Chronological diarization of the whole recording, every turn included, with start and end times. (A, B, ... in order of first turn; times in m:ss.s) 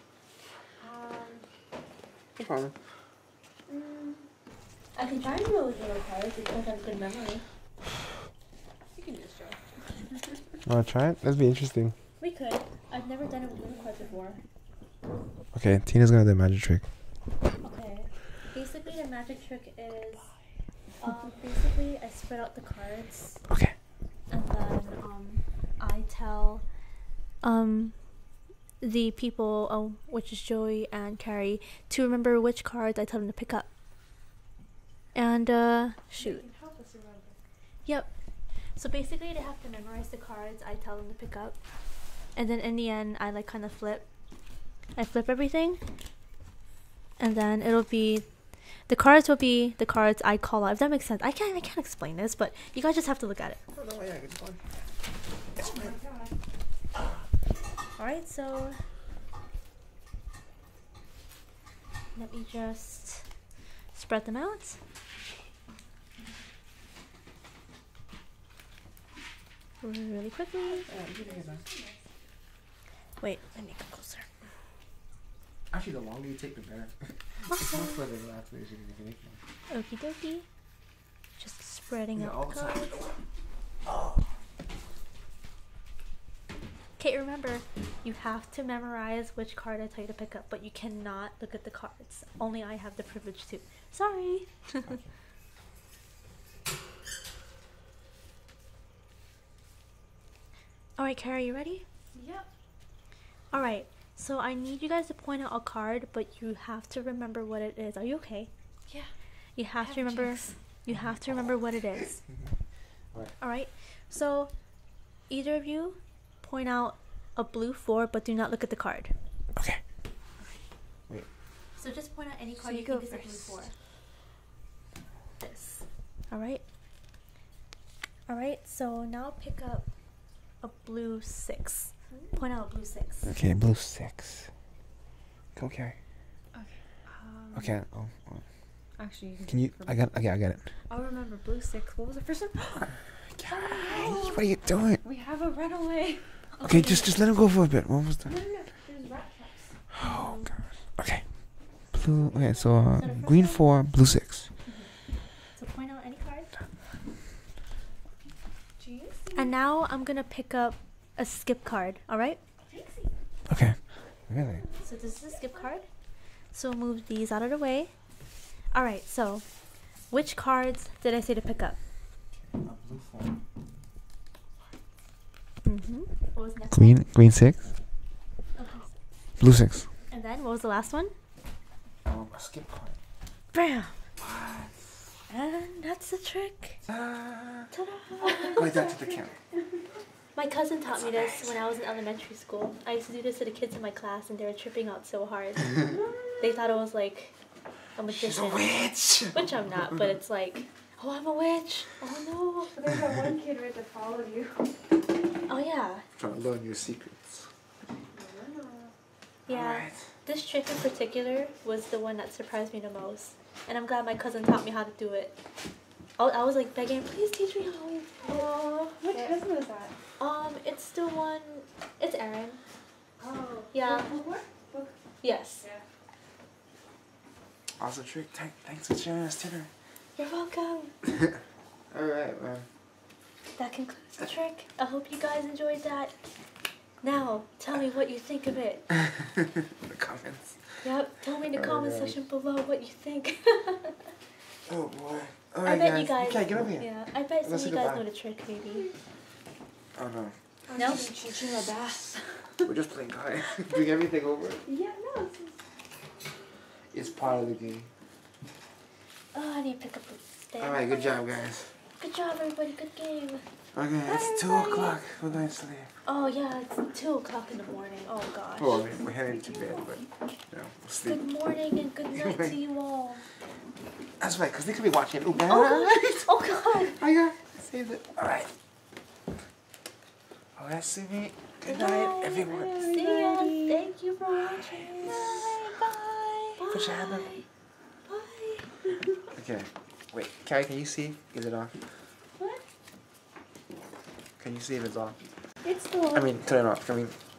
0:00.8-0:01.5 A
0:02.4-0:02.8 B
0:03.7-0:04.2 A
0:05.0-0:07.4 C
0:09.0-0:10.4 A
0:10.6-0:12.0 B
0:12.2-0:14.4 C
0:15.5-0:16.8 B
0:17.6-0:20.3 C
0:21.0-0:23.4 C
0:23.5-0:23.8 B
0:24.3-0:26.6 C
0:27.4-0:28.0 C
0:28.8-0:33.7 C
0:35.2-0:36.4 C
0:36.2-0:37.4 A
0:38.8-0:41.6 C
0:42.4-0:44.1 C
0:45.0-0:45.8 C
0:47.2-0:48.3 C
0:48.9-0:53.6 C
0:53.7-0:54.8 B
0:55.6-0:56.0 B
0:55.6-0:56.4 A
0:56.9-0:57.2 B
0:58.0-0:58.8 C
1:02.2-1:03.3 C
1:03.9-1:04.8 C
1:09.8-1:10.9 C
1:10.6-1:12.1 A
1:10.8-1:11.7 B
1:13.2-1:14.3 C
1:15.7-1:19.4 B
1:17.5-1:18.0 C
1:19.7-1:20.5 C
1:21.4-1:22.8 C
1:22.2-1:23.2 B
1:23.9-1:24.3 B
1:27.0-1:35.0 C
1:41.0-1:41.9 C
1:42.1-1:42.5 A
1:43.5-1:48.5 C
1:48.9-1:49.1 A
1:49.6-1:52.2 C
1:49.8-1:50.6 A
1:53.4-1:54.5 C
1:55.3-1:59.1 C
1:59.6-1:59.8 B
2:01.8-2:03.7 C
2:02.6-2:03.7 A
2:05.4-2:06.6 C
2:08.3-2:09.9 C
2:10.6-2:13.4 C
2:12.1-2:12.4 A
2:13.2-2:14.5 B
2:15.6-2:16.0 B
2:16.5-2:17.8 A
2:17.5-2:18.4 B
2:19.0-2:20.2 A
2:19.5-2:20.7 B
2:20.9-2:24.5 A
2:23.3-2:25.0 B
2:25.0-2:27.0 A
2:26.6-2:27.0 C
2:26.6-2:28.4 B
2:28.2-2:29.8 A
2:29.9-2:31.3 B
2:30.0-2:30.5 C
2:31.9-2:34.5 B
2:32.2-2:33.6 C
2:34.7-2:34.9 C
2:35.5-2:36.5 C
2:38.8-2:39.5 A
2:39.4-2:42.4 C
2:42.6-2:43.1 A
2:43.5-2:44.7 B
2:44.6-2:45.7 A
2:44.8-2:45.9 C
2:46.5-2:47.9 C
2:48.7-2:49.5 C
2:50.1-2:51.8 C
2:52.3-2:53.4 B
2:55.6-2:57.0 C
2:56.7-2:57.7 B
2:58.6-2:58.9 C
2:59.4-2:59.9 B
3:00.1-3:01.1 C
3:02.0-3:03.0 B
3:03.5-3:04.0 C
3:04.2-3:05.0 B
3:05.3-3:06.8 C
3:06.9-3:07.7 B
3:07.7-3:08.7 C
3:08.2-3:09.8 A
3:08.6-3:09.3 B
3:10.4-3:15.9 C
3:10.9-3:11.6 B
3:15.9-3:16.7 A
3:16.4-3:17.3 C
3:18.0-3:18.8 C
3:18.1-3:20.1 B
3:19.3-3:22.7 C
3:22.6-3:24.8 A
3:25.5-3:26.1 C
3:26.2-3:27.5 B
3:28.0-3:28.9 A
3:29.5-3:30.1 B
3:29.5-3:35.4 C
3:36.2-3:39.4 C
3:38.2-3:40.0 A
3:40.2-3:42.6 C
3:43.2-3:45.0 A
3:43.7-3:44.1 C
3:45.2-3:45.7 C
3:47.8-3:49.7 B
3:50.2-3:50.9 C
3:51.9-3:52.7 B
3:53.6-3:56.1 C
3:57.0-3:58.9 C
3:59.2-4:00.6 B
4:00.8-4:04.1 C
4:01.5-4:02.2 B
4:04.7-4:06.9 B
4:05.6-4:08.9 C
4:07.4-4:08.0 B
4:08.7-4:09.0 A
4:10.0-4:11.0 B
4:10.7-4:12.7 A
4:10.7-4:11.1 C
4:12.6-4:14.6 B
4:14.6-4:15.6 A
4:16.9-4:17.9 B
4:19.3-4:21.5 C
4:20.6-4:21.7 B
4:22.0-4:23.4 C
4:23.7-4:25.9 B
4:24.1-4:24.8 C
4:26.1-4:28.8 C
4:28.6-4:31.2 B
4:29.1-4:30.4 A
4:31.0-4:33.2 C
4:32.1-4:32.6 B
4:34.2-4:38.5 B
4:35.4-4:37.0 C
4:40.6-4:42.9 B
4:41.6-4:45.4 C
4:42.4-4:43.9 A
4:44.4-4:45.8 B
4:45.9-4:46.6 A
4:46.6-4:47.4 C
4:46.7-4:47.3 B
4:48.1-4:49.1 C
4:49.3-4:51.9 B
4:54.4-4:55.2 B
4:55.7-4:56.1 C
4:56.1-4:57.2 B